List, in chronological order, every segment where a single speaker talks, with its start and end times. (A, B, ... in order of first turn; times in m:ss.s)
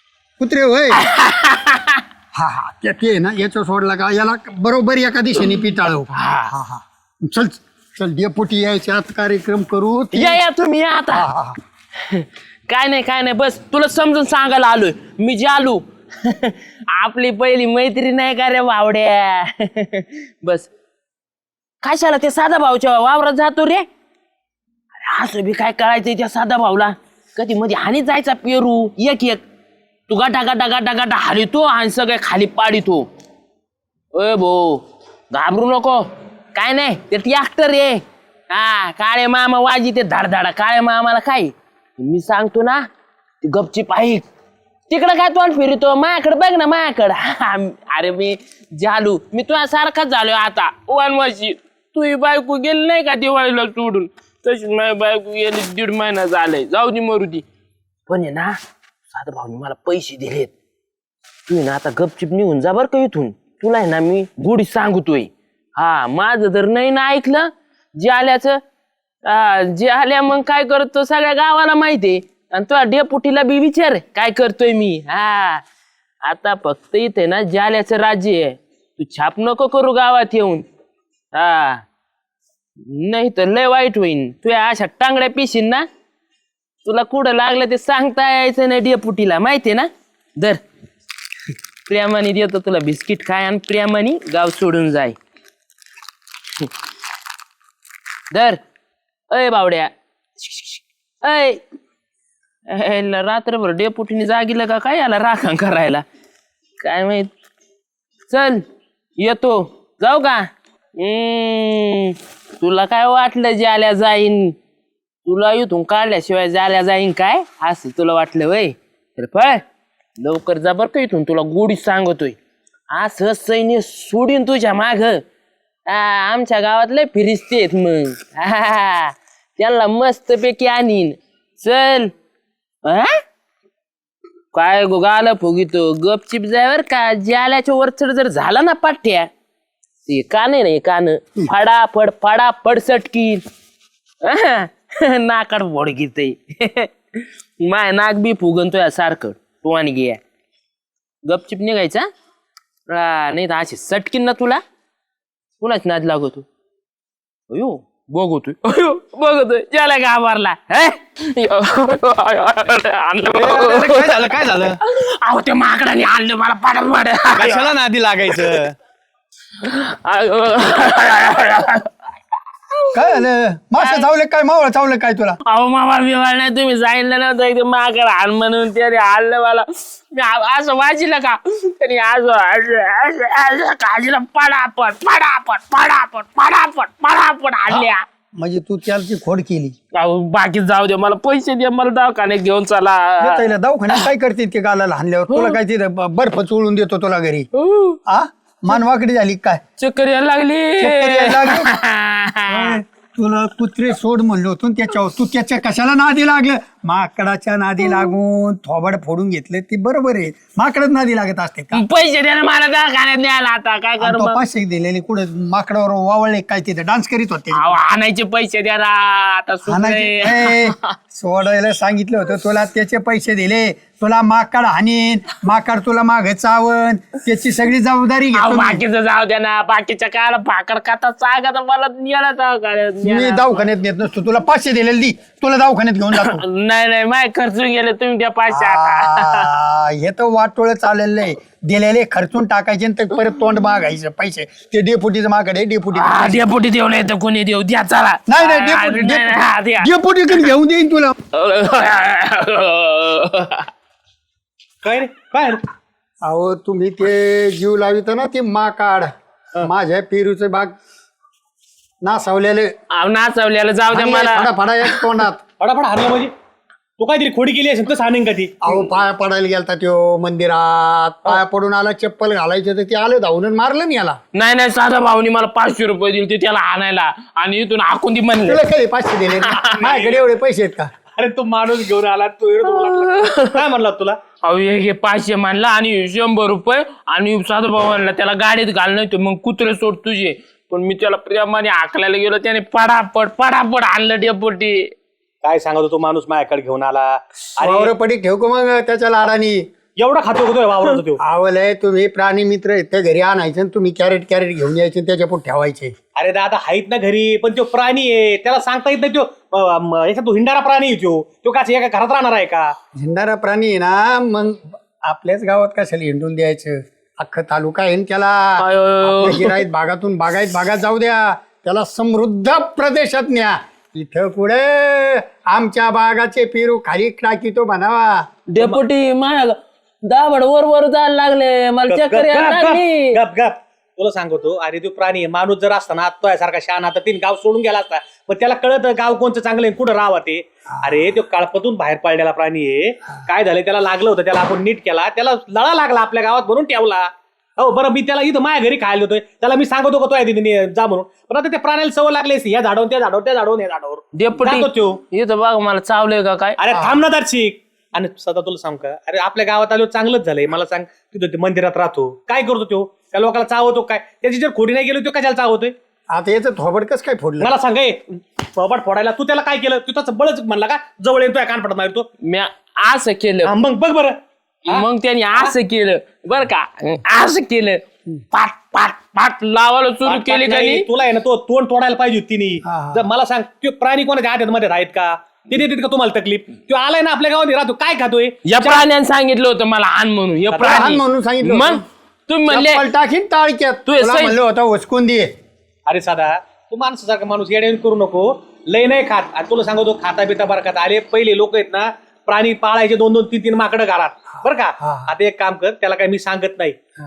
0:00.4-0:01.0 A
0:00.9-0:02.0 B
0:02.4-0:10.4 A
0:06.1-0:06.5 B
0:10.1-0:11.3 B
0:11.1-0:11.6 A
0:12.1-0:20.7 B
0:21.8-0:23.9 B
0:25.0-0:29.4 B
0:30.1-0:33.1 B
0:34.1-0:42.8 B
0:43.4-0:44.2 B
0:44.9-0:57.5 B
0:58.1-1:00.5 B
1:01.5-1:08.6 B
1:09.3-1:15.6 B
1:16.2-1:20.7 B
1:21.3-1:21.8 B
1:22.9-1:25.9 B
1:26.8-1:30.6 B
1:31.9-1:35.2 B
1:38.3-1:38.6 B
1:39.3-1:41.6 B
1:42.7-1:46.0 B
1:46.8-1:47.3 B
1:48.3-1:48.6 B
1:49.2-1:54.6 B
1:55.2-1:59.6 B
2:00.2-2:02.4 B
2:02.9-2:05.2 B
2:05.9-2:12.1 B
2:12.8-2:13.1 B
2:14.5-2:19.3 B
2:20.1-2:23.4 B
2:24.2-2:30.2 B
2:31.3-2:32.1 B
2:32.9-2:34.6 B
2:35.6-2:36.5 B
2:37.5-2:44.3 B
2:43.4-2:44.8 C
2:44.8-2:47.7 B
2:47.4-2:48.8 C
2:49.6-2:51.9 B
2:52.8-2:53.2 B
2:52.9-2:55.4 A
2:53.8-2:54.1 B
2:55.5-3:08.0 B
3:07.7-3:09.8 A
3:10.0-3:14.0 B
3:13.2-3:17.5 A
3:15.3-3:15.6 B
3:17.6-3:18.0 B
3:18.1-3:19.6 A
3:19.8-3:22.8 B
3:20.8-3:21.7 A
3:22.5-3:31.8 A
3:31.7-3:34.4 B
3:34.0-3:37.7 A
3:37.5-3:40.9 B
3:39.7-3:48.8 A
3:48.3-3:53.7 B
3:53.0-3:56.4 A
3:56.1-3:59.5 B
3:58.5-4:06.4 A
4:05.9-4:10.5 B
4:08.3-4:11.2 A
4:11.3-4:13.7 B
4:14.8-4:15.6 C
4:16.2-4:19.1 A
4:19.6-4:20.7 A
4:22.0-4:22.7 A
4:22.9-4:25.1 B
4:23.9-4:25.4 A
4:25.6-4:26.3 C
4:27.0-4:29.0 C
4:28.6-4:34.2 A
4:34.3-4:38.6 B
4:38.5-4:40.9 A
4:39.4-4:39.7 B
4:39.7-4:40.2 C
4:41.2-4:44.2 C
4:42.7-4:43.6 B
4:44.4-4:55.0 B
4:55.4-4:57.9 C
4:57.6-4:59.7 A
5:00.0-5:01.2 C
5:01.2-5:05.9 A
5:06.2-5:12.7 C
5:13.0-5:28.3 A
5:18.6-5:19.6 B
5:28.5-5:33.2 B
5:31.9-5:55.0 C
5:54.2-5:56.6 B
5:56.6-6:05.7 C
5:56.7-5:57.0 A
6:06.1-6:07.5 A
6:07.4-6:12.1 C
6:12.2-6:13.5 B
6:13.4-6:14.2 C
6:14.7-6:20.9 B
6:20.1-6:28.9 C
6:22.6-6:23.1 A
6:28.4-6:32.9 B
6:30.5-6:31.0 C
6:30.6-6:31.8 A
6:32.5-6:35.3 A
6:33.9-6:34.4 B
6:35.9-6:46.8 C
6:44.8-6:45.1 A